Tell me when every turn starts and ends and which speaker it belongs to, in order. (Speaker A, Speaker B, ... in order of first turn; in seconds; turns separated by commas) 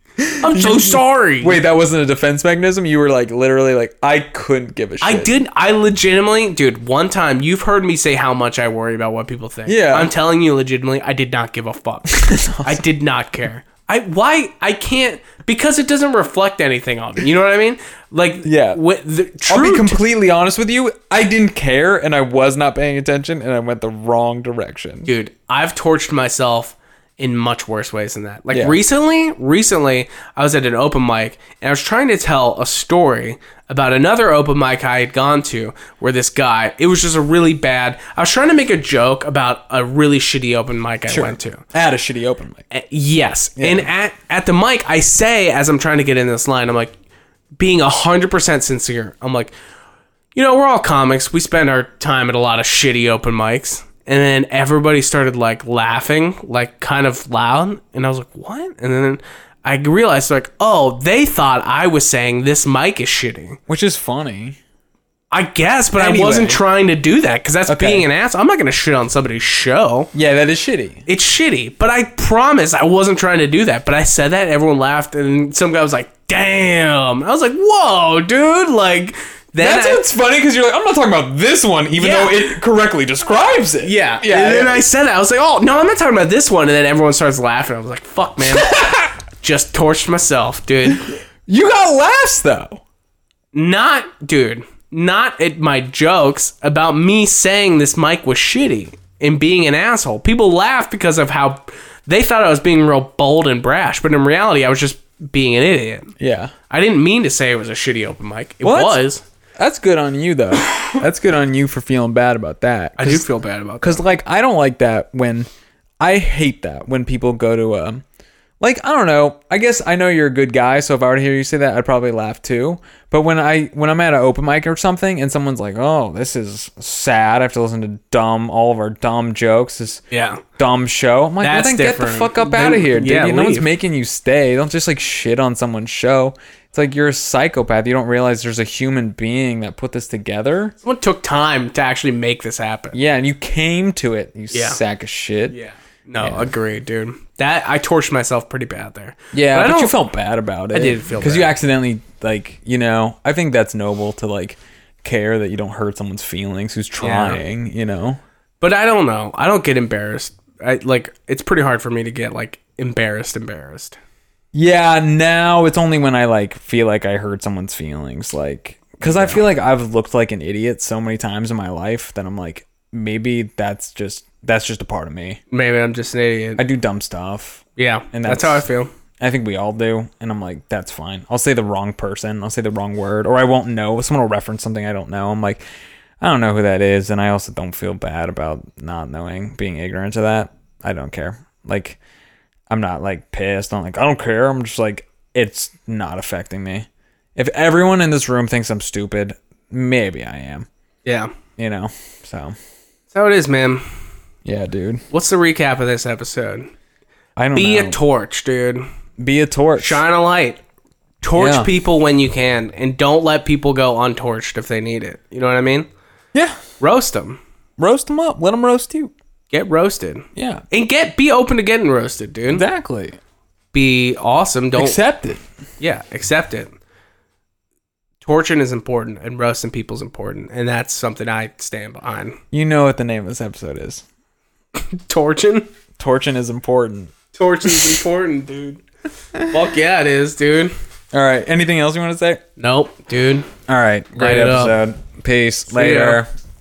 Speaker A: 0.2-5.3, Speaker B: 0.4-1.6, Speaker B: 5.0-20.0, Speaker A: 9.7-10.1, Speaker A: 12.1-12.8, Speaker A: 18.4-18.8, Speaker A: 19.5-25.1, Speaker B: 25.1-41.6, Speaker A: 28.5-28.8, Speaker A: 41.1-42.6, Speaker B: 42.7-46.9, Speaker A: 43.6-43.9, Speaker B: 47.6-49.5, Speaker B: 50.3-63.6, Speaker A: 63.7-64.6, Speaker B: 65.3-70.1, Speaker A: 66.0-66.6, Speaker A: 67.7-68.0, Speaker A: 70.1-71.0, Speaker B: 71.1-80.0, Speaker A: 79.6-84.8, Speaker B: 82.0-82.6, Speaker B: 83.8-88.7, Speaker A: 88.5-89.1, Speaker B: 89.4-91.0, Speaker A: 90.9-92.8, Speaker B: 93.5-106.1, Speaker A: 106.2-106.5, Speaker B: 106.7-109.2, Speaker A: 108.6-109.0, Speaker A: 109.6-113.2, Speaker B: 113.0-114.0, Speaker A: 113.8-115.5, Speaker A: 116.0-118.0, Speaker A: 118.6-130.0, Speaker B: 130.1-130.4, Speaker A: 130.6-140.7, Speaker B: 131.4-133.7, Speaker B: 140.8-142.9, Speaker A: 142.9-145.6, Speaker B: 144.5-144.8, Speaker B: 145.5-149.9, Speaker A: 146.2-146.5, Speaker A: 149.3-158.2, Speaker B: 150.7-151.5, Speaker B: 157.0-157.4, Speaker B: 158.6-164.0, Speaker A: 164.5-175.4, Speaker B: 169.0-169.4, Speaker B: 175.5-176.6, Speaker A: 176.6-178.6, Speaker B: 177.8-178.9, Speaker A: 179.2-185.6, Speaker A: 186.2-192.0, Speaker A: 192.7-200.7, Speaker B: 201.0-201.3, Speaker A: 201.6-202.6, Speaker B: 203.1-203.8, Speaker A: 204.4-205.0, Speaker B: 205.1-206.7, Speaker A: 207.4-208.0, Speaker B: 207.5-208.8, Speaker A: 209.2-210.0, Speaker B: 209.8-210.6, Speaker B: 211.2-215.9, Speaker A: 211.3-211.7, Speaker A: 216.3-216.6, Speaker B: 216.8-217.4, Speaker A: 217.8-219.1, Speaker B: 219.5-222.6, Speaker A: 220.3-220.6, Speaker A: 222.5-223.2, Speaker B: 223.7-225.0, Speaker A: 224.8-225.4, Speaker B: 225.8-226.7, Speaker B: 228.2-232.4, Speaker A: 232.5-234.0, Speaker B: 234.8-235.7, Speaker A: 236.0-237.1, Speaker B: 237.3-238.8, Speaker A: 237.6-237.9, Speaker B: 239.5-240.7, Speaker A: 241.1-242.4, Speaker B: 242.6-243.5, Speaker A: 243.7-246.3, Speaker B: 244.2-244.8, Speaker B: 245.7-246.2